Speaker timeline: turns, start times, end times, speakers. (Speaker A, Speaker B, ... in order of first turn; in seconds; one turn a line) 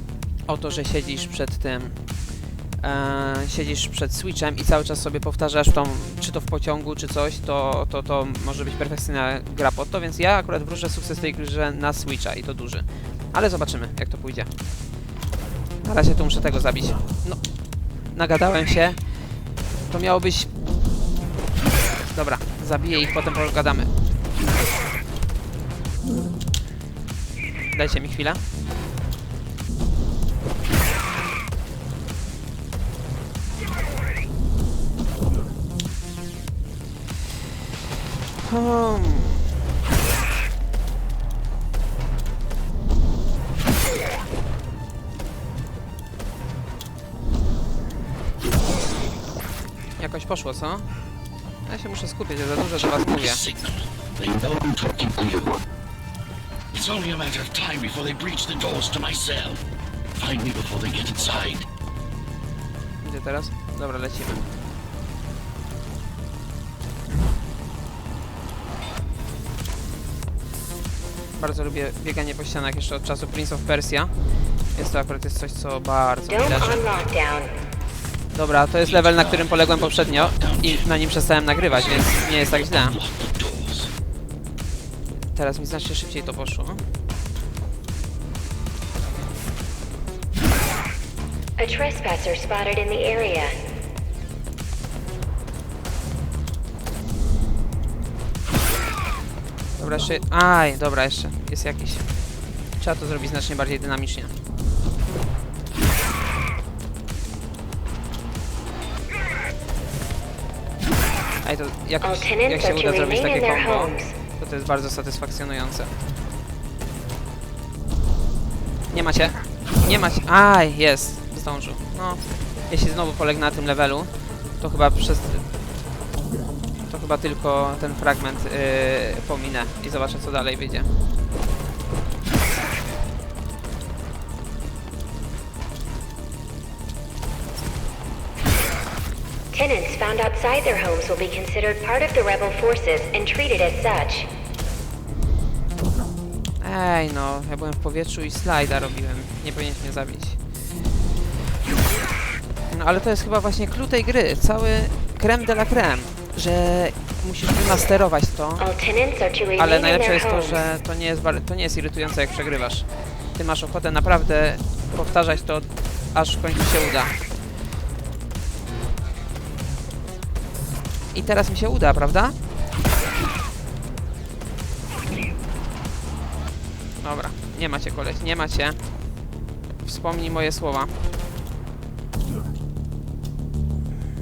Speaker A: 0.5-2.0
Speaker A: 2.8-14.5
Speaker A: 15.8-19.2
Speaker A: 19.9-20.5
Speaker A: 22.1-23.9
Speaker A: 27.7-28.4
Speaker A: 38.4-39.4
Speaker A: 50.0-50.9
Speaker A: 51.6-53.4
Speaker B: 52.8-55.6
Speaker B: 56.7-59.6
Speaker B: 60.1-61.7
Speaker A: 63.0-64.6
Speaker A: 71.4-74.1
Speaker A: 74.7-76.9
Speaker C: 76.3-77.5
Speaker A: 78.3-83.0
Speaker B: 78.8-80.9
Speaker B: 81.7-83.9
Speaker A: 85.2-86.8
Speaker C: 91.6-93.5
Speaker A: 99.8-102.2
Speaker A: 102.8-104.3
Speaker A: 111.4-115.9
Speaker C: 112.0-114.1
Speaker A: 118.9-125.5
Speaker A: 126.9-130.9
Speaker C: 139.5-144.3
Speaker A: 146.6-150.4
Speaker A: 152.7-158.6
Speaker C: 158.6-160.7
Speaker A: 159.6-167.2
Speaker A: 171.1-172.4
Speaker A: 177.0-178.9
Speaker A: 179.8-181.0